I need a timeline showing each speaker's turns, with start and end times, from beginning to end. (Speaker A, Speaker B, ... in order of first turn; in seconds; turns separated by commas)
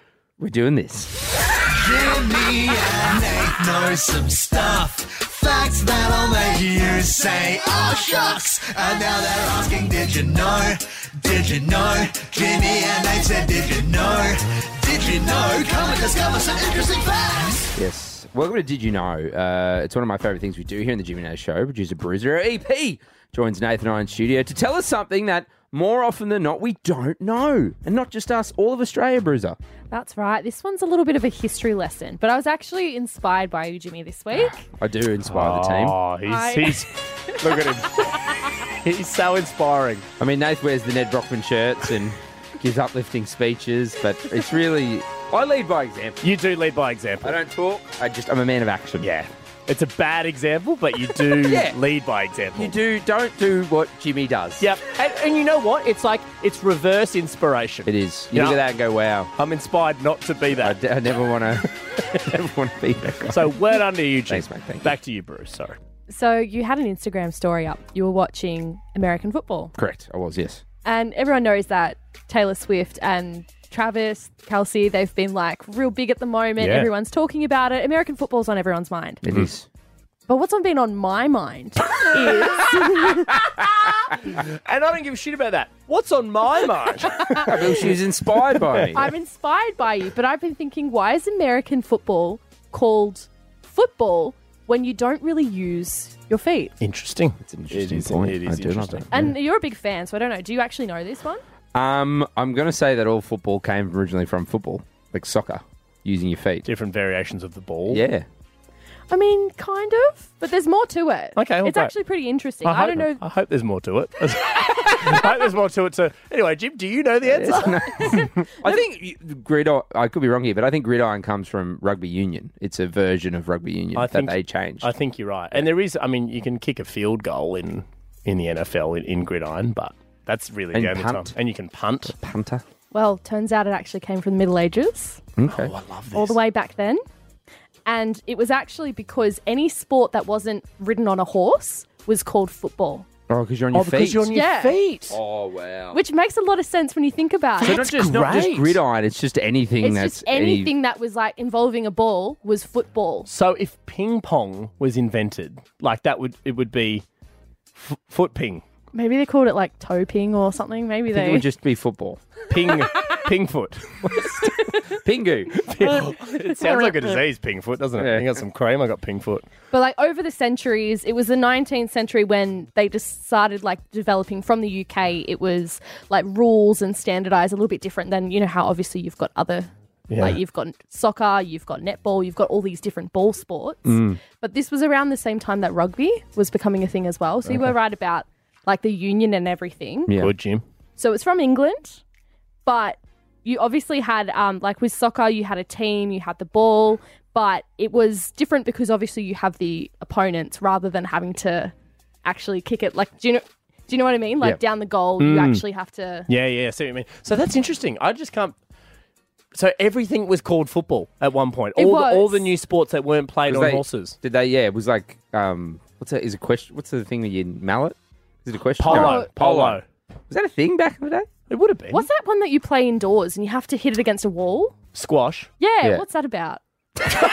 Speaker A: 0.4-1.1, Speaker B: 1.7-17.7, Speaker A: 17.8-29.6, Speaker C: 29.9-34.6, Speaker A: 34.8-36.0, Speaker D: 35.3-40.1, Speaker C: 36.2-38.2, Speaker A: 40.2-46.2, Speaker D: 46.2-47.4, Speaker A: 47.2-49.1, Speaker D: 49.0-52.8, Speaker A: 51.4-51.8, Speaker A: 52.5-54.7, Speaker D: 54.6-58.6, Speaker A: 57.9-59.3, Speaker D: 59.4-60.8, Speaker A: 60.6-63.6, Speaker D: 63.3-65.8, Speaker A: 64.3-65.0, Speaker C: 66.1-69.7, Speaker A: 69.8-70.6, Speaker C: 70.8-79.2, Speaker D: 76.6-76.9, Speaker A: 79.2-79.7, Speaker C: 80.3-83.6, Speaker D: 84.1-87.8, Speaker A: 87.3-89.1, Speaker C: 87.4-87.6, Speaker D: 88.6-89.0, Speaker C: 88.9-96.7, Speaker D: 96.8-99.3, Speaker A: 97.4-99.2, Speaker C: 99.1-101.4, Speaker A: 101.7-106.7, Speaker D: 106.7-108.0, Speaker A: 107.9-108.2, Speaker C: 109.1-113.2, Speaker D: 111.4-111.9, Speaker D: 112.6-118.2, Speaker A: 117.2-124.9, Speaker C: 117.7-118.5, Speaker D: 124.0-132.2, Speaker A: 130.7-131.3, Speaker A: 132.1-132.6, Speaker C: 132.9-135.2, Speaker A: 135.4-135.7, Speaker D: 135.5-136.4, Speaker C: 136.1-137.0, Speaker C: 137.9-143.1, Speaker A: 143.3-144.3, Speaker D: 143.7-145.2, Speaker C: 144.3-144.8, Speaker A: 145.1-146.0, Speaker C: 145.9-147.8, Speaker D: 147.6-148.8, Speaker A: 147.6-150.7, Speaker C: 149.8-153.3, Speaker D: 153.3-157.1, Speaker D: 157.8-158.6, Speaker C: 158.9-161.5, Speaker A: 161.1-162.2, Speaker D: 162.5-164.3, Speaker C: 164.4-164.7, Speaker A: 164.8-165.9, Speaker D: 165.6-169.5, Speaker C: 166.1-167.1, Speaker A: 168.0-168.2, Speaker C: 169.7-190.2, Speaker D: 180.1-180.4, Speaker A: 183.9-184.2, Speaker A: 190.1-190.3, Speaker D: 190.2-190.6, Speaker C: 191.0-192.0, Speaker C: 192.7-201.7, Speaker C: 202.2-206.3, Speaker D: 205.2-205.6, Speaker D: 206.3-208.6, Speaker D: 209.5-214.2, Speaker C: 211.8-212.5, Speaker A: 213.5-221.3, Speaker D: 218.8-219.8, Speaker C: 218.9-219.3, Speaker D: 221.5-222.1, Speaker C: 221.9-224.8, Speaker D: 224.9-225.5, Speaker C: 225.6-226.6